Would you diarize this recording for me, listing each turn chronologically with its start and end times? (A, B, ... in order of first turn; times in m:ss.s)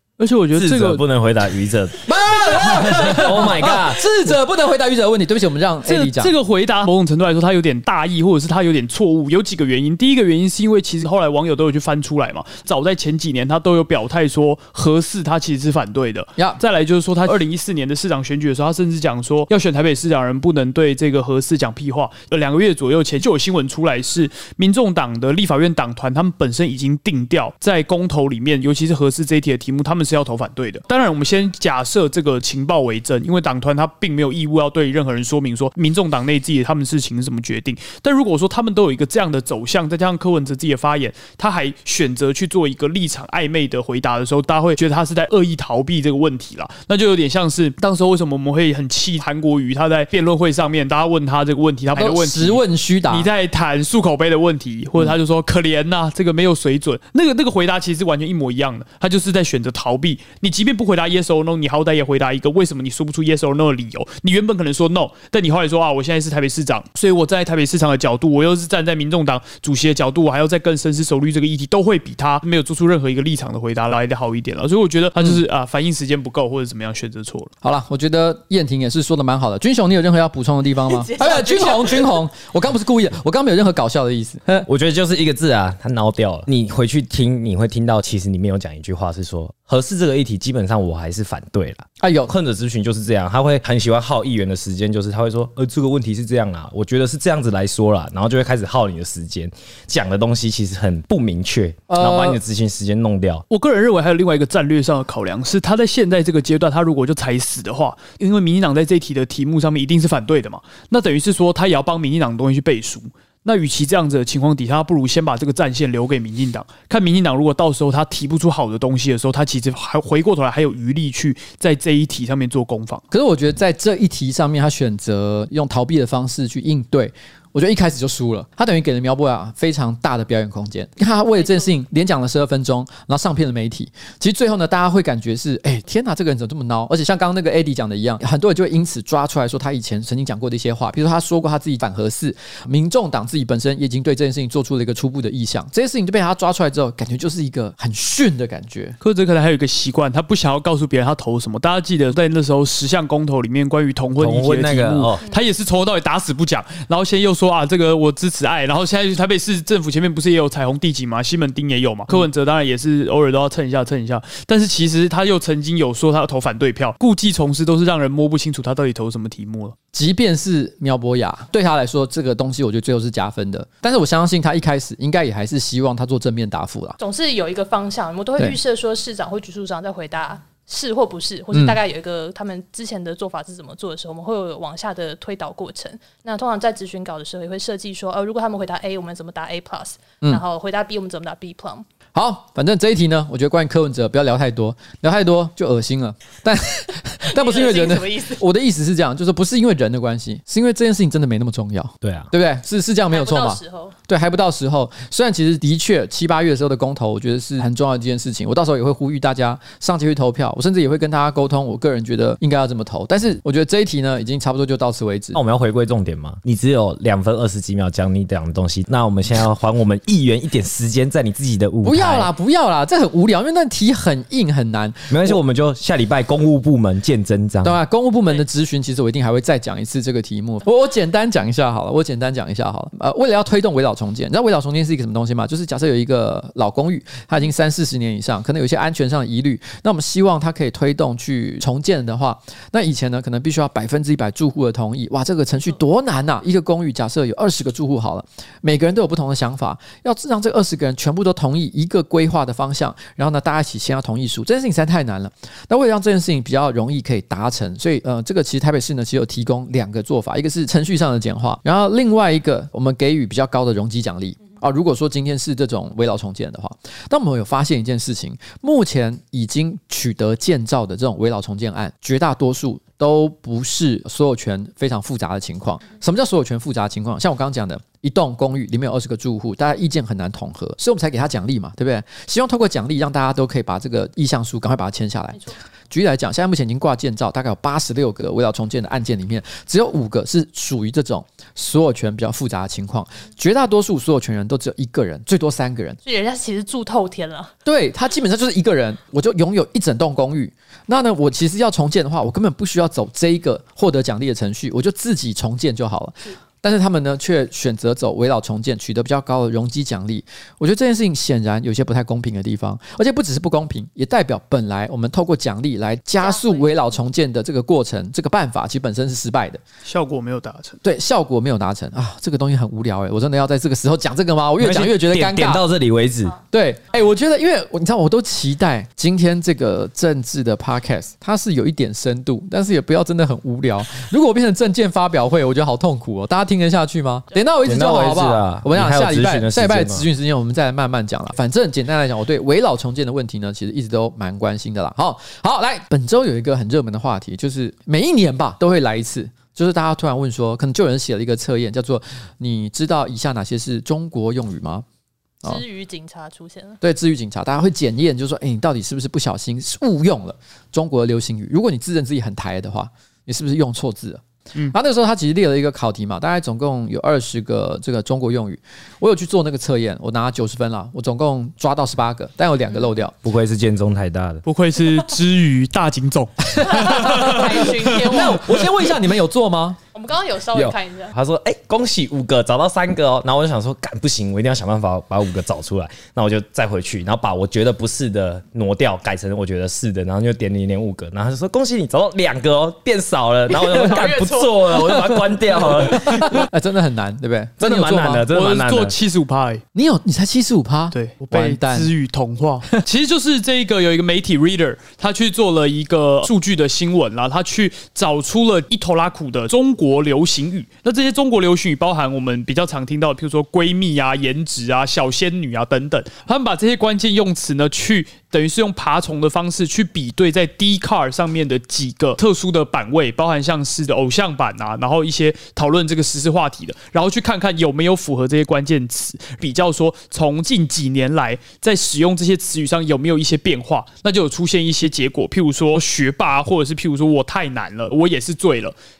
0:00.2-0:01.0 A
0:00.5-0:04.1 B
0:02.0-0:06.3 C
0:02.9-0:03.4 A
0:05.8-1:17.5 A
0:51.9-0:53.3 C
1:17.6-1:24.7 C
1:20.8-1:22.1 D
1:24.7-1:43.4 B
1:32.0-1:32.3 C
1:41.9-1:42.4 C
1:43.5-2:03.0 A
2:03.1-2:29.0 C
2:11.4-2:11.7 D
2:29.0-2:49.7 A
2:34.2-2:35.2 B
2:49.9-2:57.0 C
2:57.0-3:11.8 D
3:01.5-3:01.8 C
3:12.1-3:35.4 C
3:17.2-3:18.4 D
3:22.0-3:22.3 B
3:23.1-3:23.9 D
3:35.3-3:42.3 B
3:41.8-3:45.4 C
3:45.1-3:47.8 B
3:47.6-4:56.0 C
4:56.0-4:57.5 D
4:57.6-5:19.6 C
5:16.2-5:16.7 D
5:19.8-5:20.8 A
5:20.8-5:25.6 C
5:24.6-5:26.4 B
5:26.5-5:54.8 C
5:37.6-5:40.0 B
5:55.4-5:56.8 D
5:56.8-6:13.1 C
6:13.2-6:14.4 B
6:14.4-6:18.6 A
6:16.6-6:18.5 D
6:16.6-6:19.8 C
6:19.9-6:21.1 D
6:20.5-6:36.5 B
6:33.7-6:34.1 C
6:33.7-6:34.7 D
6:34.7-6:38.2 C
6:37.6-6:38.9 B
6:38.3-6:39.6 A
6:39.7-6:41.9 C
6:40.9-7:18.7 A